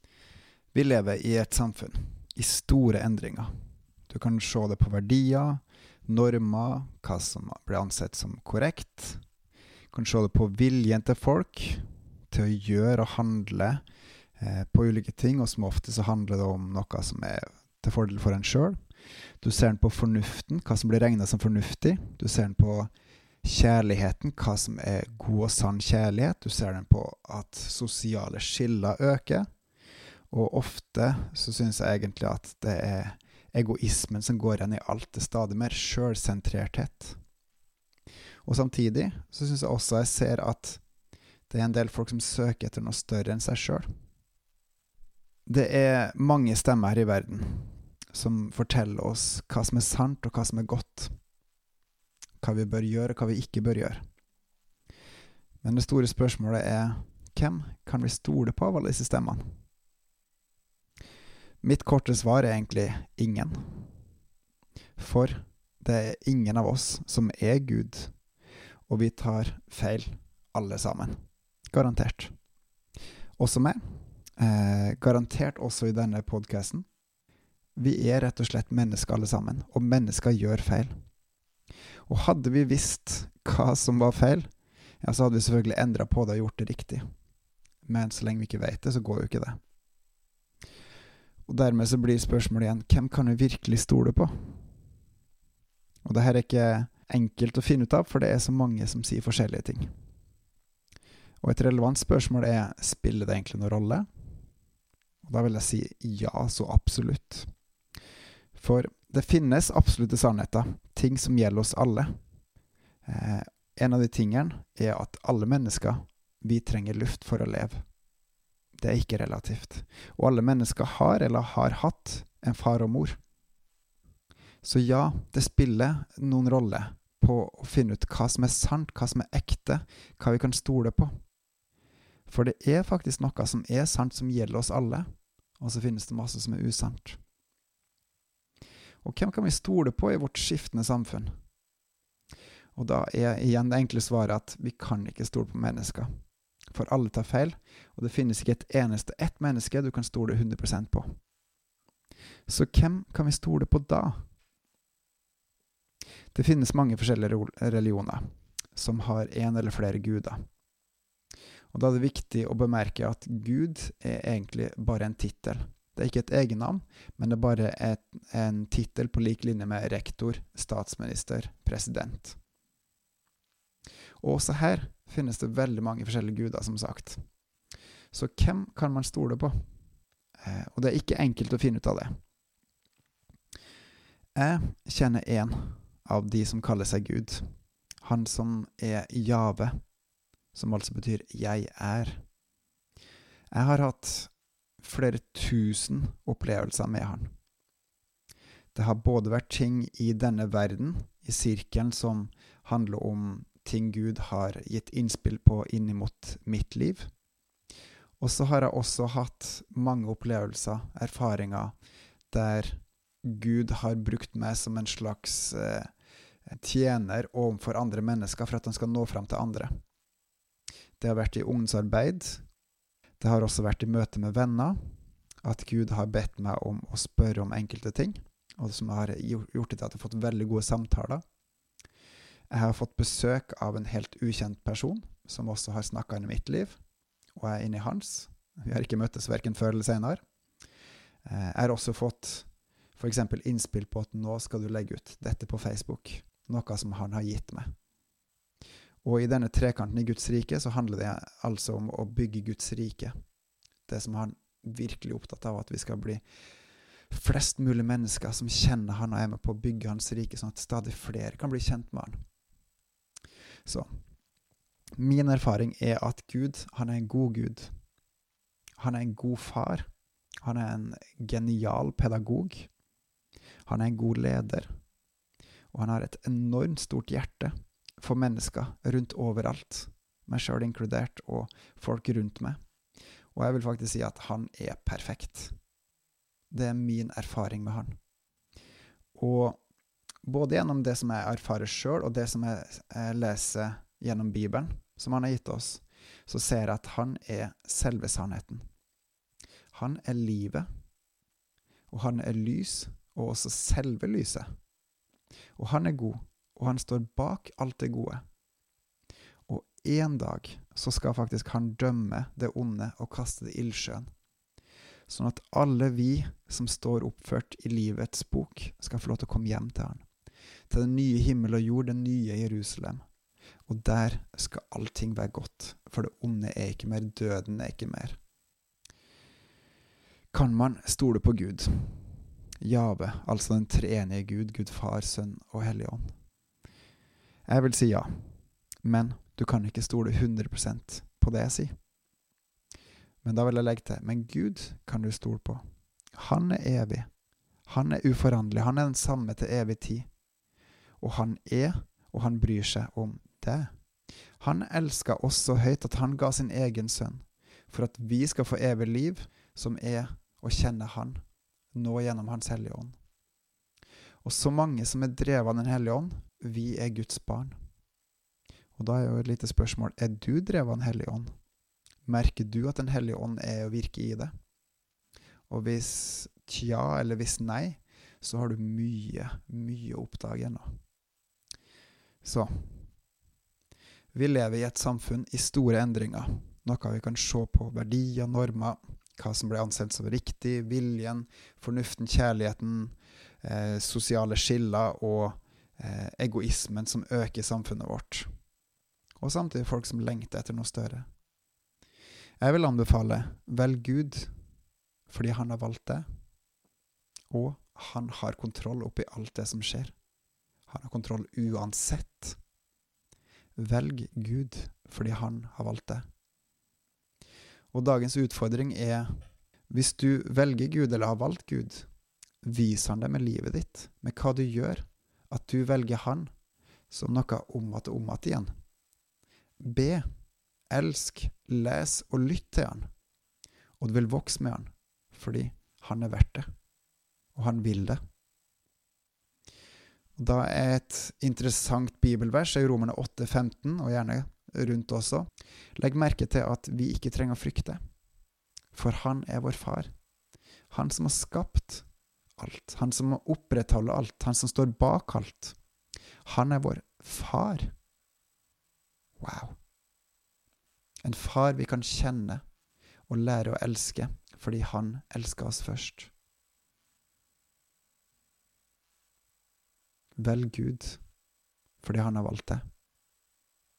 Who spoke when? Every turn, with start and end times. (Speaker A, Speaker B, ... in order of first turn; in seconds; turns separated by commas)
Speaker A: 0.7-3.5, Speaker A: 4.1-9.2, Speaker A: 9.9-13.8, Speaker A: 14.4-18.8, Speaker A: 19.4-22.9, Speaker A: 23.4-29.4, Speaker A: 30.3-37.2, Speaker A: 38.4-40.8, Speaker A: 41.5-43.9, Speaker A: 45.5-51.1, Speaker A: 52.4-54.0, Speaker A: 55.6-59.4, Speaker A: 61.6-63.9, Speaker A: 65.0-68.1, Speaker A: 68.9-71.2, Speaker A: 71.7-72.3, Speaker A: 73.4-73.8, Speaker A: 74.4-76.8, Speaker A: 77.8-80.9, Speaker A: 82.1-84.5, Speaker A: 85.0-87.0, Speaker A: 87.8-89.6, Speaker A: 91.5-94.7, Speaker A: 96.0-99.9, Speaker A: 101.4-104.1, Speaker A: 105.2-107.5, Speaker A: 108.5-112.1, Speaker A: 113.0-117.8, Speaker A: 118.8-123.2, Speaker A: 124.6-131.1, Speaker A: 132.3-135.1, Speaker A: 135.6-137.2, Speaker A: 139.0-141.3, Speaker A: 142.8-146.1, Speaker A: 146.7-151.1, Speaker A: 152.5-154.2, Speaker A: 156.3-158.2, Speaker A: 158.7-160.4, Speaker A: 161.7-172.4, Speaker A: 174.2-177.2, Speaker A: 178.1-179.6, Speaker A: 180.4-182.1, Speaker A: 184.3-187.5, Speaker A: 188.0-189.7, Speaker A: 190.5-192.2, Speaker A: 193.5-197.3, Speaker A: 198.7-207.1, Speaker A: 208.2-211.7, Speaker A: 212.3-215.9, Speaker A: 216.5-219.7, Speaker A: 221.0-222.4, Speaker A: 223.2-224.8, Speaker A: 225.4-231.2, Speaker A: 232.5-236.8, Speaker A: 237.3-240.2, Speaker A: 241.2-247.7, Speaker A: 249.0-253.1, Speaker A: 253.9-256.2, Speaker A: 257.1-262.2, Speaker A: 265.0-267.7, Speaker A: 268.8-269.9, Speaker A: 270.4-272.7, Speaker A: 273.6-274.7, Speaker A: 275.7-282.6, Speaker A: 283.3-285.5, Speaker A: 286.5-287.9, Speaker A: 289.1-289.6, Speaker A: 290.2-298.6, Speaker A: 299.7-300.7, Speaker A: 301.9-304.5, Speaker A: 305.6-308.2, Speaker A: 309.5-314.1, Speaker A: 315.1-320.0, Speaker A: 320.7-323.0, Speaker A: 323.7-328.2, Speaker A: 330.3-336.1, Speaker A: 337.5-338.3, Speaker A: 338.8-341.7, Speaker A: 343.2-345.6, Speaker A: 346.1-347.1, Speaker A: 347.7-350.1, Speaker A: 351.0-353.7, Speaker A: 354.4-361.2, Speaker A: 361.7-362.9, Speaker A: 364.2-367.6, Speaker A: 368.8-371.3, Speaker A: 372.1-374.3, Speaker A: 375.5-380.7, Speaker A: 382.2-382.9, Speaker A: 384.1-398.3, Speaker A: 399.2-401.1, Speaker A: 402.4-404.3, Speaker A: 405.1-406.0, Speaker A: 407.3-409.9, Speaker A: 410.7-412.4, Speaker A: 413.6-416.0, Speaker A: 417.7-419.1, Speaker A: 419.7-421.9, Speaker A: 422.4-426.3, Speaker A: 426.9-428.5, Speaker A: 429.6-430.0, Speaker A: 430.7-432.9, Speaker A: 433.8-436.5, Speaker A: 437.3-438.0, Speaker A: 440.2-447.8, Speaker A: 448.7-449.9, Speaker A: 450.7-451.8, Speaker A: 452.4-455.6, Speaker A: 456.2-457.7, Speaker A: 459.2-459.6, Speaker A: 461.0-462.4, Speaker A: 463.1-466.1, Speaker A: 470.2-471.0, Speaker A: 471.8-472.6